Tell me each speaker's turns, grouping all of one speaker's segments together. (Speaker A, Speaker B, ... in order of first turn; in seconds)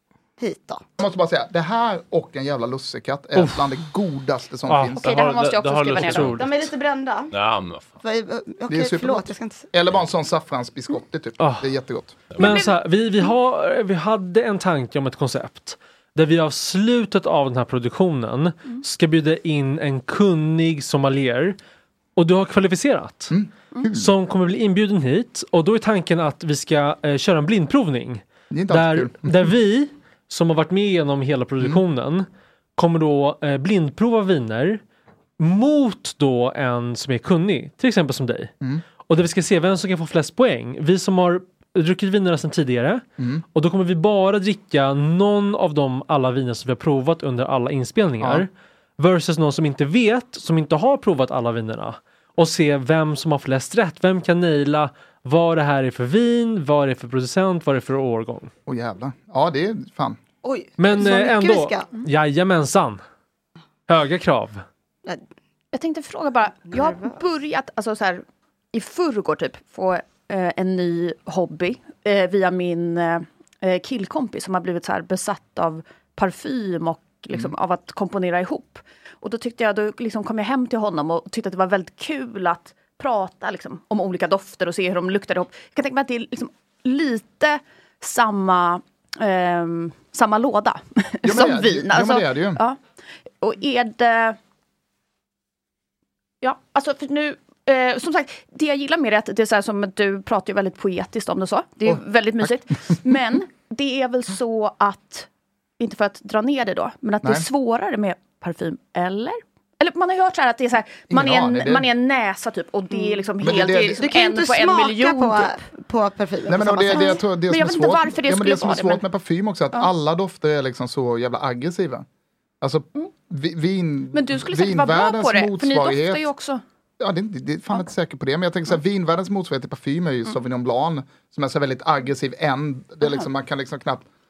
Speaker A: 0.4-0.8, 6.3-7.3, 8.0-9.7, 60.4-61.9, 112.9-117.2
Speaker B: 1.0-5.0, 8.7-12.3, 23.3-24.1, 28.5-29.5, 43.2-43.4, 48.2-48.4, 58.7-60.2, 91.2-92.6, 101.8-102.5, 111.1-111.9, 113.4-114.0, 116.5-122.0, 122.6-126.3, 127.0-134.1
Speaker C: 3.4-3.7, 4.7-5.0, 6.0-6.5, 11.4-11.7, 12.3-21.6, 22.1-23.3, 23.9-34.8, 35.4-38.5, 39.1-43.0, 43.5-58.5, 60.8-63.0, 63.9-64.6
Speaker D: 5.0-6.4, 12.4-12.7, 65.7-92.8, 93.4-94.4, 96.4-105.3, 105.8-115.6, 116.9-119.0, 124.1-126.6
Speaker E: 5.0-6.7, 7.3-8.0